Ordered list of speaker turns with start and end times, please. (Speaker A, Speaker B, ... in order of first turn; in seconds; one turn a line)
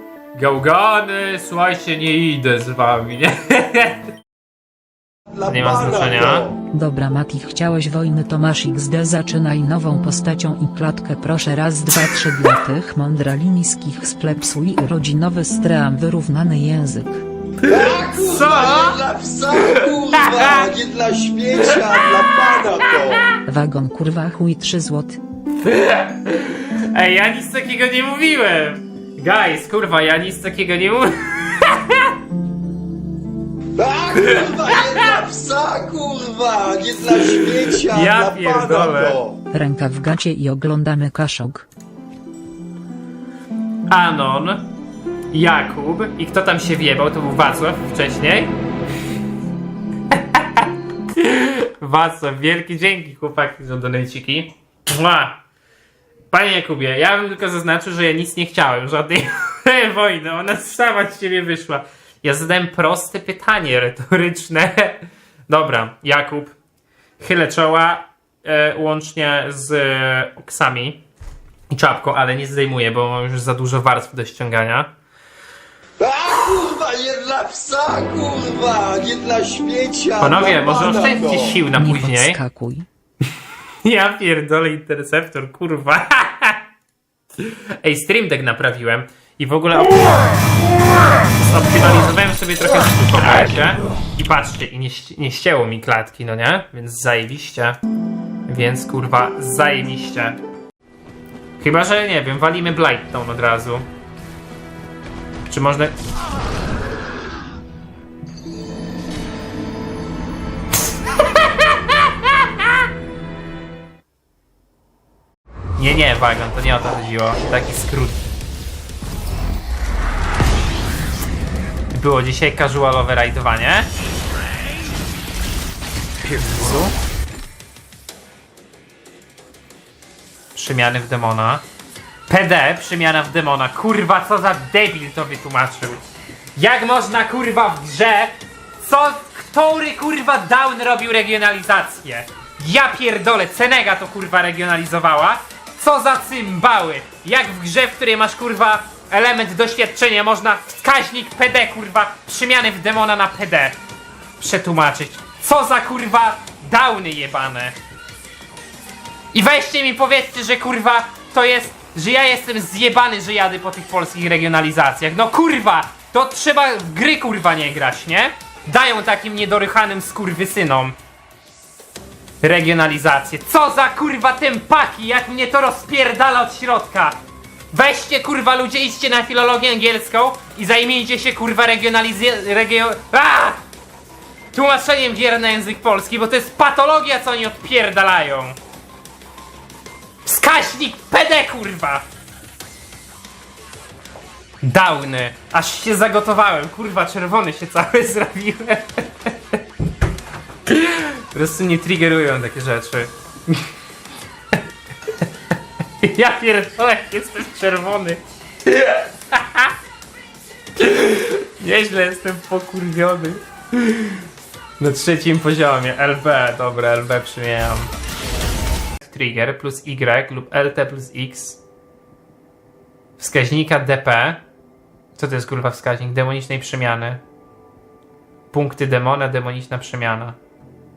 Speaker A: 0.3-4.0
Speaker B: 5.3-6.5
Speaker A: 5.5-6.5
Speaker C: 6.7-17.2
Speaker A: 17.6-19.0
Speaker B: 17.7-23.3
Speaker A: 19.6-20.7
Speaker C: 23.4-25.2
Speaker A: 25.6-32.1
Speaker B: 33.8-39.4
Speaker A: 34.2-35.2
Speaker A: 37.1-39.2
Speaker C: 39.5-41.6
Speaker A: 43.9-44.7
Speaker A: 45.3-48.5
Speaker A: 50.1-55.4
Speaker A: 56.3-66.5
Speaker A: 67.2-71.0
Speaker A: 71.7-74.9
Speaker B: 76.0-81.6
Speaker A: 80.2-82.4
Speaker C: 81.7-82.9
Speaker A: 83.8-86.6
Speaker A: 87.4-90.2
Speaker A: 91.3-97.8
Speaker A: 98.5-100.4
Speaker A: 101.6-103.8
Speaker A: 105.4-105.9
Speaker A: 115.8-118.2
Speaker A: 121.9-123.9
Speaker A: 126.2-126.9
Speaker A: 130.5-131.6
Speaker A: 132.3-136.0
Speaker A: 136.6-153.8
Speaker A: 154.4-157.8
Speaker A: 159.3-170.9
Speaker A: 172.4-177.2
Speaker A: 177.7-183.6
Speaker A: 184.5-188.6
Speaker A: 190.2-192.0
Speaker A: 194.6-199.6
Speaker A: 200.7-203.6
Speaker A: 206.0-209.7
Speaker A: 210.8-214.2
Speaker A: 214.8-217.9
Speaker A: 219.0-221.6
Speaker A: 223.2-224.4
Speaker A: 225.2-227.2
Speaker A: 228.5-230.4